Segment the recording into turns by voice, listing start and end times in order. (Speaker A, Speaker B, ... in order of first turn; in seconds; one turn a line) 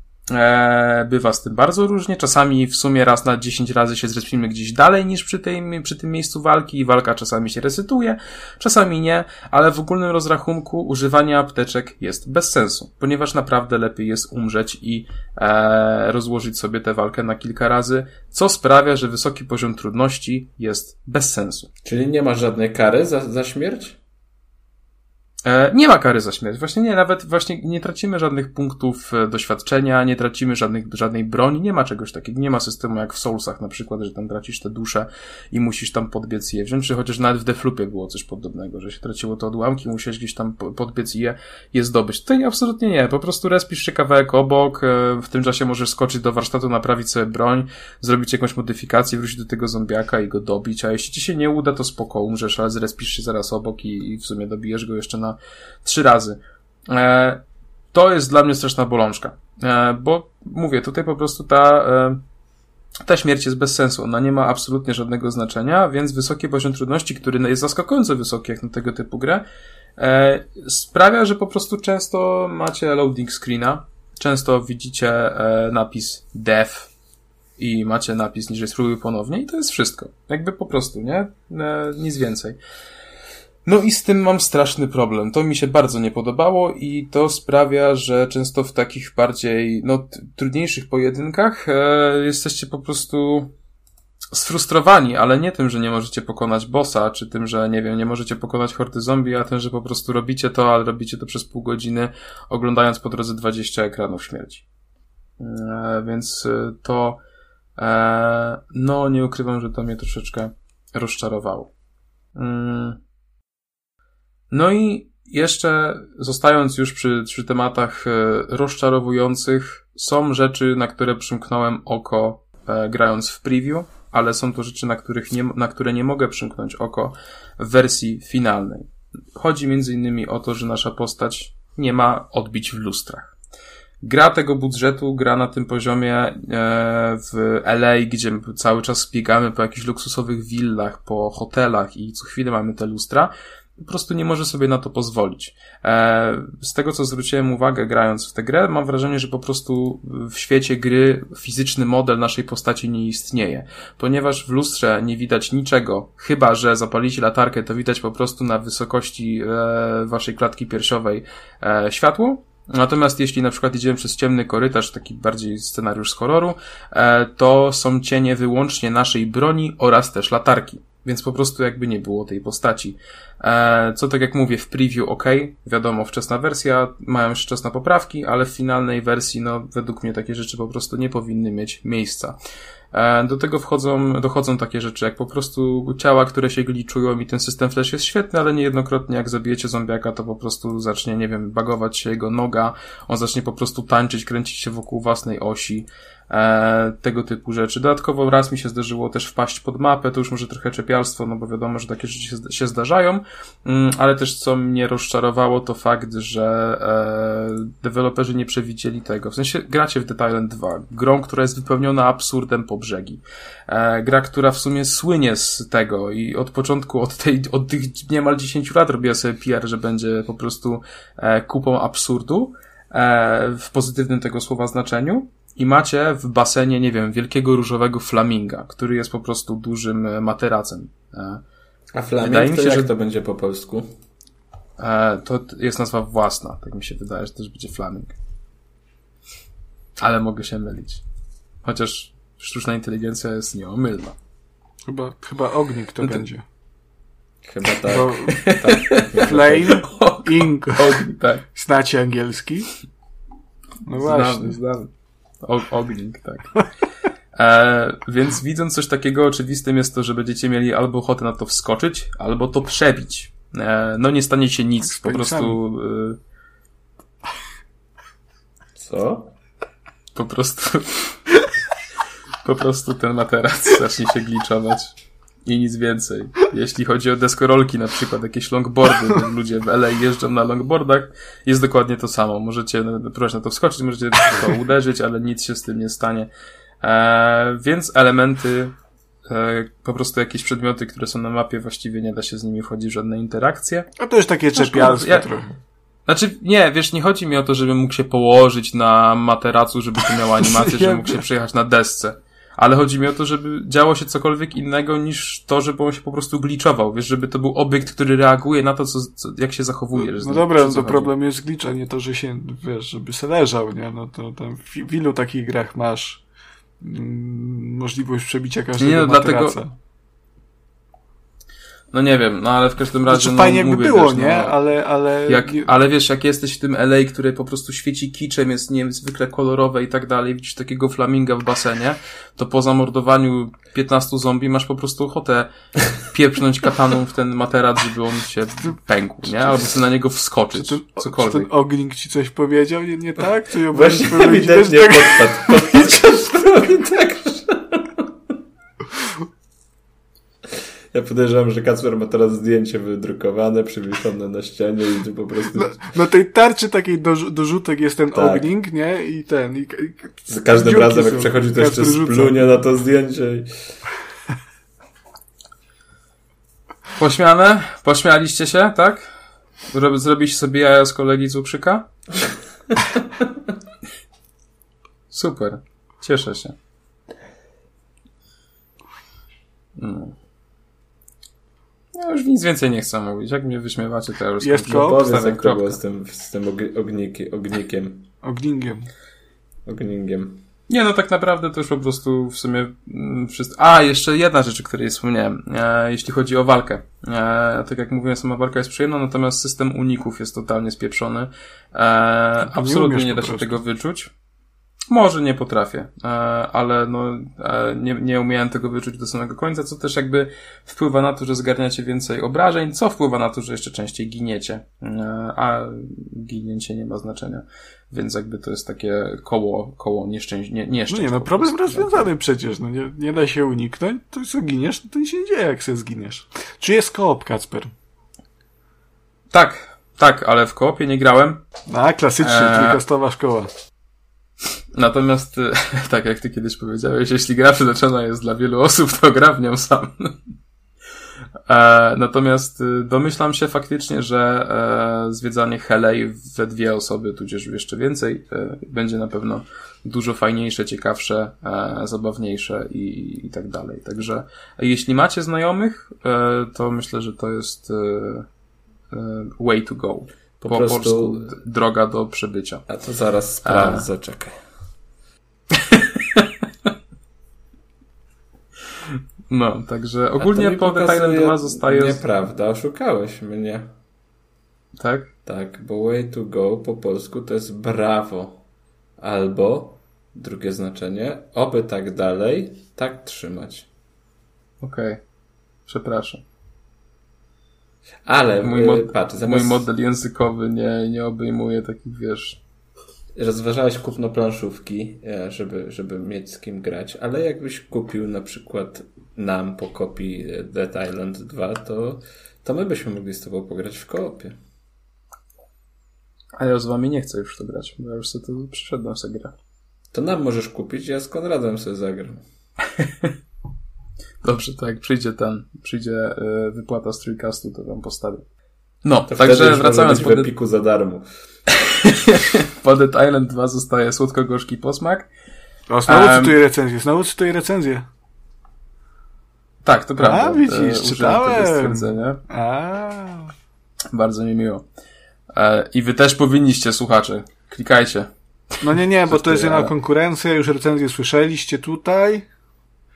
Speaker A: 0.3-21.7
Speaker B: 21.8-24.0
Speaker A: 25.4-62.2
Speaker A: 63.0-69.4
Speaker A: 70.0-76.9
Speaker A: 77.6-82.6
Speaker A: 83.6-93.5
Speaker A: 94.3-104.6
Speaker A: 105.4-107.2
Speaker A: 107.8-111.7
Speaker A: 112.3-113.0
Speaker A: 114.5-133.3
Speaker A: 134.0-182.3
Speaker A: 182.9-231.4
Speaker B: 231.9-233.9
Speaker A: 232.2-232.9
Speaker A: 234.8-238.2
Speaker A: 240.0-241.0
Speaker A: 241.6-244.2
Speaker C: 244.9-246.4
Speaker B: 247.4-249.8
Speaker C: 247.9-248.5
Speaker A: 248.3-249.2
Speaker C: 249.1-252.7
Speaker A: 249.7-251.4
Speaker C: 253.8-254.6
Speaker A: 254.0-254.9
Speaker A: 255.4-256.6
Speaker A: 257.3-266.2
Speaker C: 264.8-265.6
Speaker B: 268.8-269.3
Speaker A: 270.1-271.1
Speaker A: 272.4-286.3
Speaker A: 286.8-288.8
Speaker A: 289.3-293.9
Speaker C: 294.0-295.5
Speaker A: 294.5-295.3
Speaker A: 296.1-311.1
Speaker C: 300.4-301.2
Speaker C: 310.0-316.2
Speaker C: 316.8-319.7
Speaker A: 318.8-319.6
Speaker A: 321.9-324.6
Speaker C: 323.1-325.7
Speaker A: 325.3-341.5
Speaker C: 340.5-345.7
Speaker B: 343.7-348.4
Speaker B: 350.9-355.8
Speaker C: 355.5-362.5
Speaker B: 358.1-358.4
Speaker B: 360.3-363.8
Speaker A: 367.0-369.1
Speaker A: 369.7-371.9
Speaker A: 375.1-376.6
Speaker A: 379.8-380.1
Speaker A: 381.9-385.8
Speaker C: 384.4-385.1
Speaker B: 384.7-388.1
Speaker C: 388.2-388.9
Speaker B: 389.6-390.4
Speaker A: 390.7-404.1
Speaker C: 402.4-403.6
Speaker A: 404.9-422.1
Speaker C: 420.9-427.7
Speaker A: 429.3-431.4
Speaker C: 431.7-433.5
Speaker A: 432.2-432.8
Speaker A: 434.7-440.2
Speaker A: 441.5-458.3
Speaker A: 458.9-462.6
Speaker B: 460.4-461.3
Speaker B: 462.7-464.4
Speaker A: 463.4-463.9
Speaker A: 465.5-466.3
Speaker A: 469.3-472.0
Speaker B: 470.2-473.7
Speaker A: 474.8-475.1
Speaker B: 475.2-478.4
Speaker B: 479.0-483.7
Speaker A: 484.6-485.0
Speaker A: 485.6-486.2
Speaker B: 488.0-489.6
Speaker A: 488.4-492.4
Speaker B: 493.1-504.4
Speaker A: 506.4-509.3
Speaker B: 509.9-512.2
Speaker A: 512.8-513.1
Speaker A: 514.2-518.2
Speaker A: 518.8-520.3
Speaker B: 519.1-521.0
Speaker A: 521.7-525.1
Speaker C: 525.7-527.9
Speaker A: 525.9-526.4
Speaker A: 529.6-532.2
Speaker C: 530.0-533.3
Speaker A: 533.9-534.6
Speaker A: 535.3-538.1
Speaker A: 538.6-539.7
Speaker C: 538.6-542.2